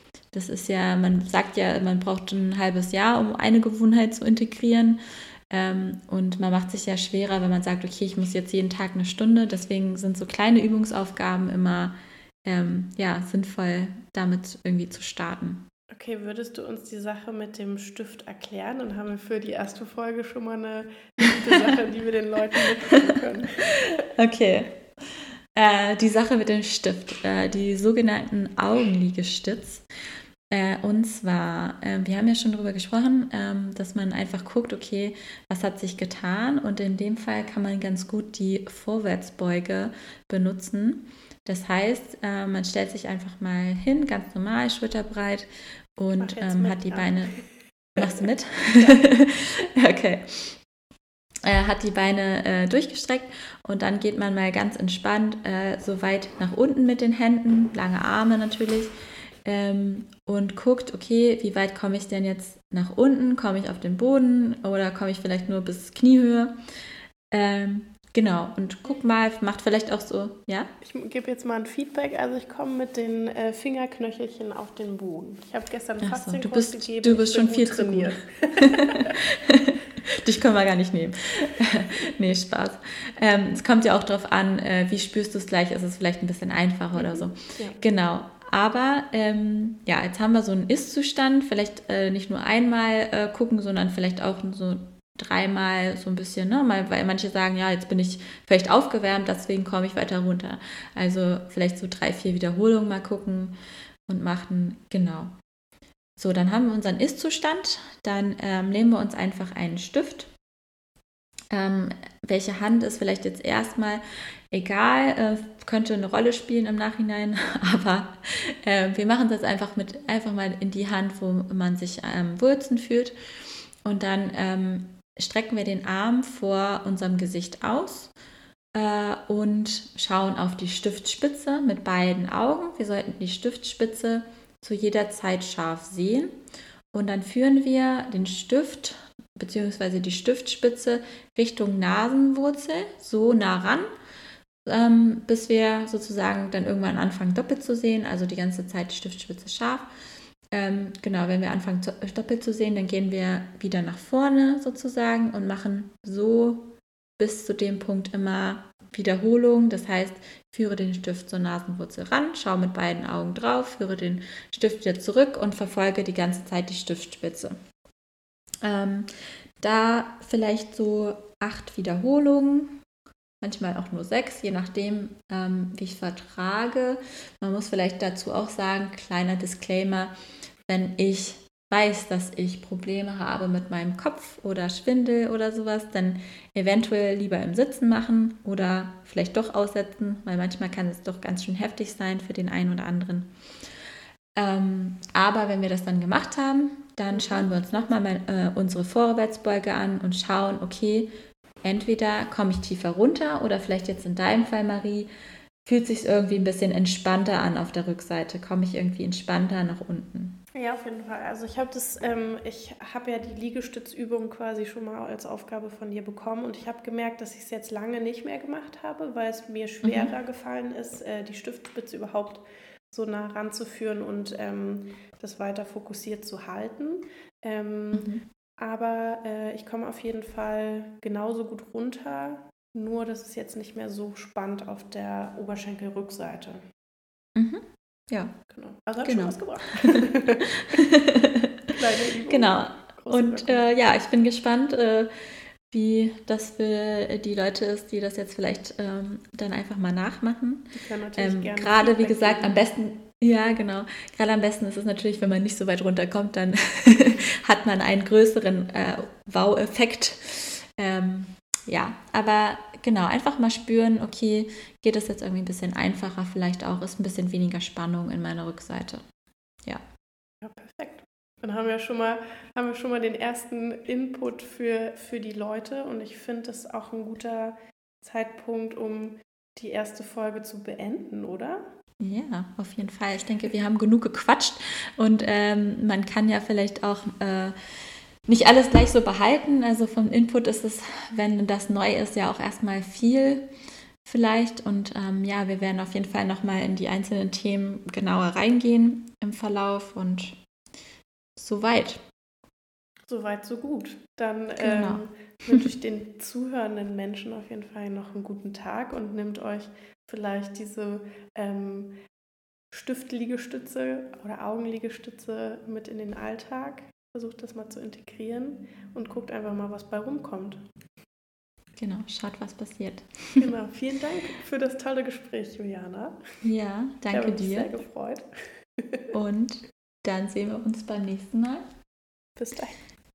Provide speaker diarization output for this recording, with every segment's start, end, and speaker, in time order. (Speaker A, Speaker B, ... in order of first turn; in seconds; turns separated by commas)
Speaker A: 0.3-15.7, Speaker B: 15.9-23.9, Speaker A: 24.0-29.9, Speaker A: 30.5-47.4, Speaker B: 46.2-47.5, Speaker A: 48.0-50.6, Speaker A: 51.4-58.9, Speaker A: 59.4-66.5, Speaker A: 67.3-70.7, Speaker B: 70.8-79.2, Speaker A: 76.0-103.5, Speaker B: 86.9-87.8, Speaker A: 104.1-105.3, Speaker A: 106.2-110.3, Speaker A: 111.5-123.1, Speaker A: 123.8-128.1, Speaker A: 128.7-136.3, Speaker A: 136.9-143.9, Speaker A: 144.7-149.9, Speaker A: 150.5-167.6, Speaker A: 168.6-169.1, Speaker A: 169.6-172.8, Speaker A: 173.4-180.1, Speaker A: 180.7-193.3, Speaker A: 194.3-201.1, Speaker B: 197.1-198.0, Speaker A: 201.6-205.1, Speaker A: 205.6-210.4, Speaker B: 210.5-236.6, Speaker A: 219.8-220.1, Speaker A: 227.9-228.2, Speaker A: 237.3-238.3, Speaker B: 238.5-240.8, Speaker A: 239.0-240.1, Speaker A: 240.7-241.7, Speaker B: 241.7-243.7, Speaker A: 242.3-245.1, Speaker A: 245.7-269.0, Speaker B: 250.7-252.6, Speaker B: 270.4-281.6, Speaker A: 282.0-287.6, Speaker A: 288.3-293.5, Speaker A: 294.0-300.4, Speaker A: 301.4-302.0, Speaker B: 303.1-312.0, Speaker A: 304.6-305.6, Speaker B: 312.7-320.6, Speaker A: 321.8-323.5, Speaker B: 323.4-326.2, Speaker A: 326.4-327.7, Speaker B: 327.1-329.1, Speaker A: 329.1-331.6, Speaker B: 332.4-332.8